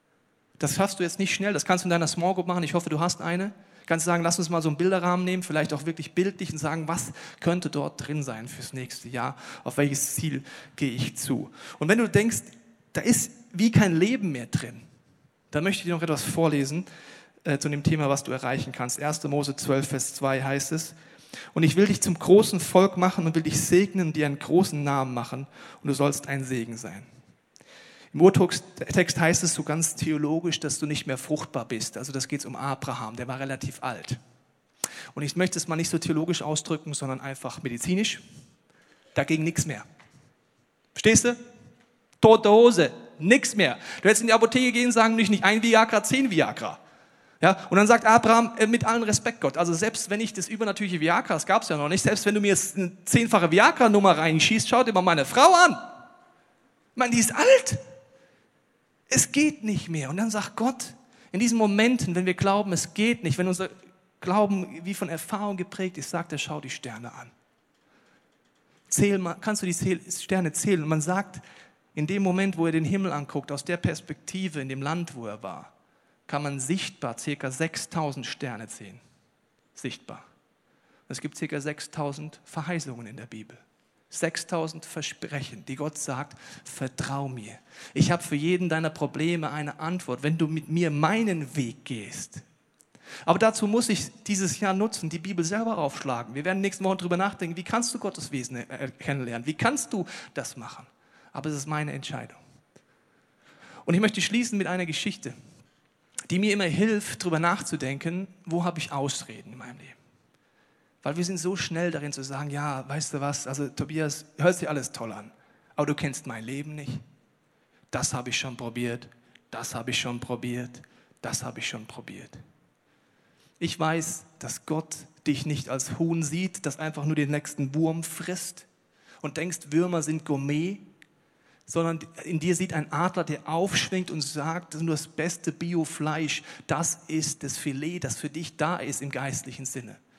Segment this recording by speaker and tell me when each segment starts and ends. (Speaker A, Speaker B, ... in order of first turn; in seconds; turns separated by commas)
Speaker A: 0.6-14.8, Speaker A: 15.5-16.9, Speaker A: 17.4-20.9, Speaker A: 21.5-27.1, Speaker A: 28.1-34.2, Speaker A: 35.1-38.2, Speaker A: 39.1-39.9, Speaker A: 40.9-41.4, Speaker A: 42.2-46.8, Speaker A: 47.4-55.8, Speaker A: 57.0-57.8, Speaker A: 59.1-67.3, Speaker A: 68.9-71.4, Speaker A: 71.9-75.7, Speaker A: 76.3-79.0, Speaker A: 79.7-80.2, Speaker A: 81.1-92.4, Speaker A: 93.2-102.4, Speaker A: 103.8-105.3, Speaker A: 106.3-110.0, Speaker A: 111.0-117.0, Speaker A: 117.9-122.4, Speaker A: 123.6-128.7, Speaker A: 129.2-130.8, Speaker A: 131.7-140.0